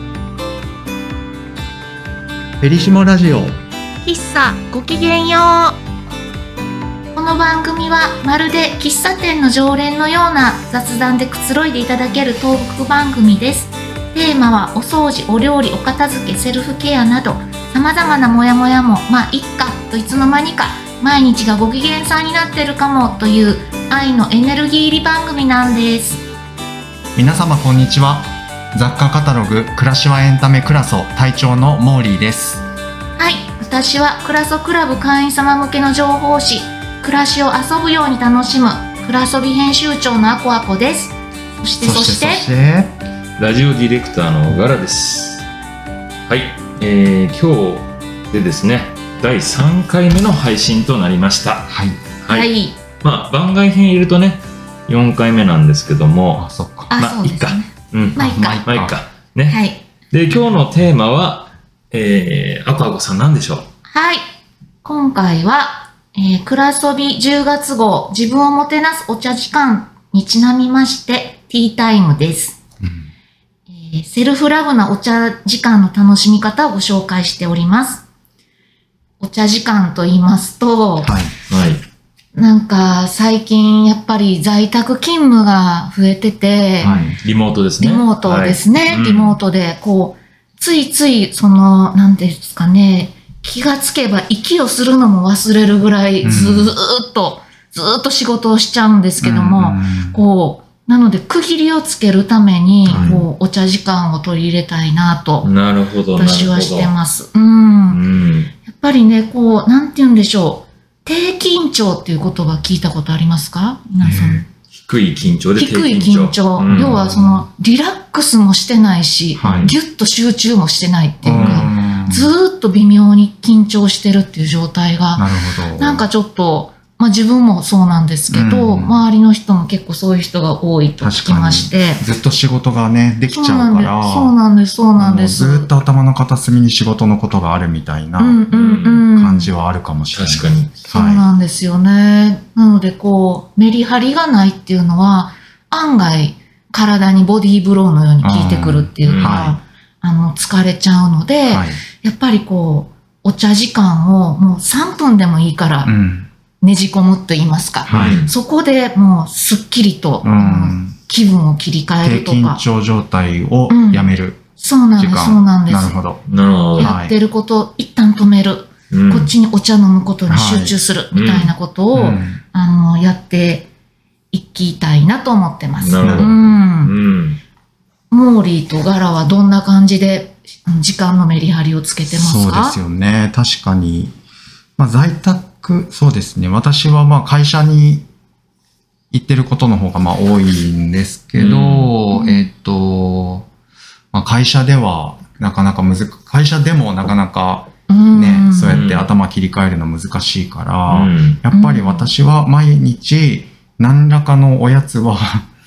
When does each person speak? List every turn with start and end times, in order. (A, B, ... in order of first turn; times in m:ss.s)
0:02.6-0:03.6 A
0:04.0-0:05.7 B
0:07.1-0:26.2 B
0:27.1-0:32.6 A
0:33.2-0:42.5 B
0:41.8-0:43.0 A
0:43.4-0:45.5 C
0:46.3-0:51.7 C
0:51.7-0:52.0 A
0:52.2-0:52.5 C
0:52.3-0:52.8 B
0:53.0-1:03.7 C
0:56.4-0:56.9 A
0:56.9-0:58.6 B
0:58.2-0:58.9 A
0:59.5-0:59.8 B
1:03.9-1:04.2 B
1:04.8-1:12.6 B
1:12.8-1:13.1 A
1:13.7-1:18.0 B
1:19.2-1:21.2 B
1:21.0-1:21.3 A
1:21.5-1:21.8 C
1:22.3-1:26.9 B
1:26.8-1:27.1 A
1:26.8-1:29.4 C
1:27.8-1:45.5 B
1:36.2-1:36.7 A
1:39.2-1:40.2 A
1:42.8-1:43.2 A
1:42.9-1:43.2 C
1:45.4-1:46.9 C
1:46.2-1:48.0 B
1:47.9-1:48.5 C
1:48.6-1:54.4 B
1:54.0-1:54.4 A
1:54.7-1:57.0 C
1:55.6-2:12.0 B
1:56.7-1:57.5 A
1:59.4-1:59.7 A
1:59.4-1:59.7 C
2:01.2-2:02.3 A
2:01.3-2:01.7 C
2:05.2-2:06.1 A
2:08.3-2:09.0 A
2:11.0-2:14.3 A
2:13.3-2:15.7 B
2:15.0-2:18.4 A
2:18.2-2:19.5 B
2:18.5-2:19.1 C
2:19.1-2:21.2 A
2:20.1-2:20.8 C
2:20.9-2:35.9 B
2:28.2-2:29.6 A
2:29.0-2:29.5 C
2:31.5-2:31.8 A
2:35.8-2:36.3 A
2:36.6-2:42.6 B
2:37.8-2:38.2 A
2:37.9-2:38.3 C
2:40.2-2:41.0 A
2:42.0-2:44.4 A
2:43.7-2:45.9 B
2:45.0-2:46.2 A
2:46.3-2:46.9 C
2:46.8-2:47.1 A
2:46.8-2:53.7 B
2:48.9-2:49.3 C
2:50.3-2:50.8 A
2:51.1-2:51.5 C
2:51.9-2:52.4 A
2:54.3-2:56.9 B
2:55.8-2:57.4 C
2:56.0-2:56.4 A
2:58.1-3:02.8 B
3:02.1-3:04.1 A
3:04.8-3:08.0 A
3:09.1-3:13.5 A
3:11.3-3:11.9 C
3:12.1-3:12.5 B
3:14.1-3:25.5 A
3:17.9-3:18.8 B
3:18.7-3:19.1 C
3:20.9-3:21.4 C
3:21.5-3:22.1 B